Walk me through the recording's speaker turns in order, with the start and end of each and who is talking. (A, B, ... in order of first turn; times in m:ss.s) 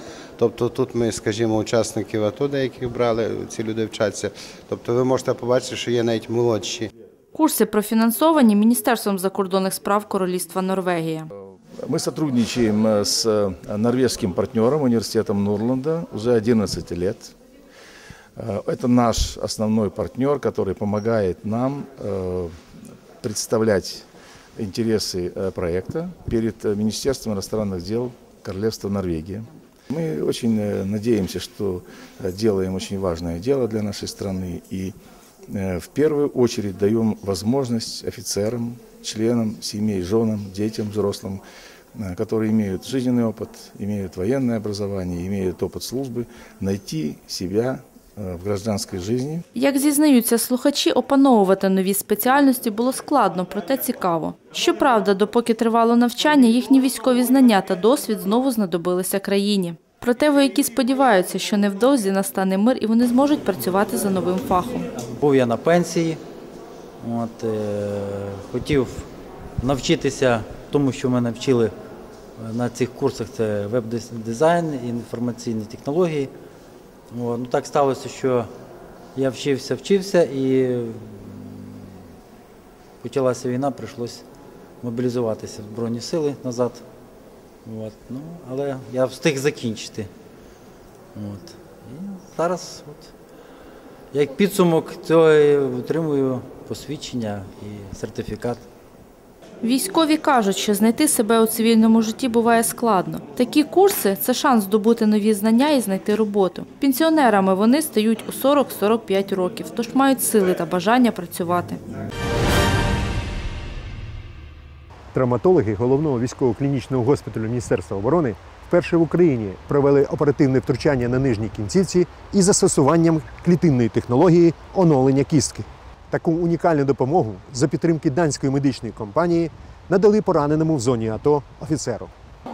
0:00.4-0:06.9 A
0:07.3-0:11.3 B
0:11.8-0:17.4 C
0:18.4-0:22.6 C
0:23.2-0:35.0 C
0:35.5-0:41.4 C
0:42.0-0:49.5 C
0:49.5-1:04.9 B
1:05.2-1:06.2 D
1:07.0-1:09.1 D
1:09.6-1:11.7 D
1:12.4-1:16.3 D
1:17.1-1:18.5 D
1:19.2-1:21.8 D
1:23.0-1:24.2 D
1:24.8-1:26.8 D
1:27.6-1:30.1 D
1:31.2-1:33.1 D
1:34.1-1:38.7 D
1:39.6-1:51.8 B
1:55.1-2:12.1 E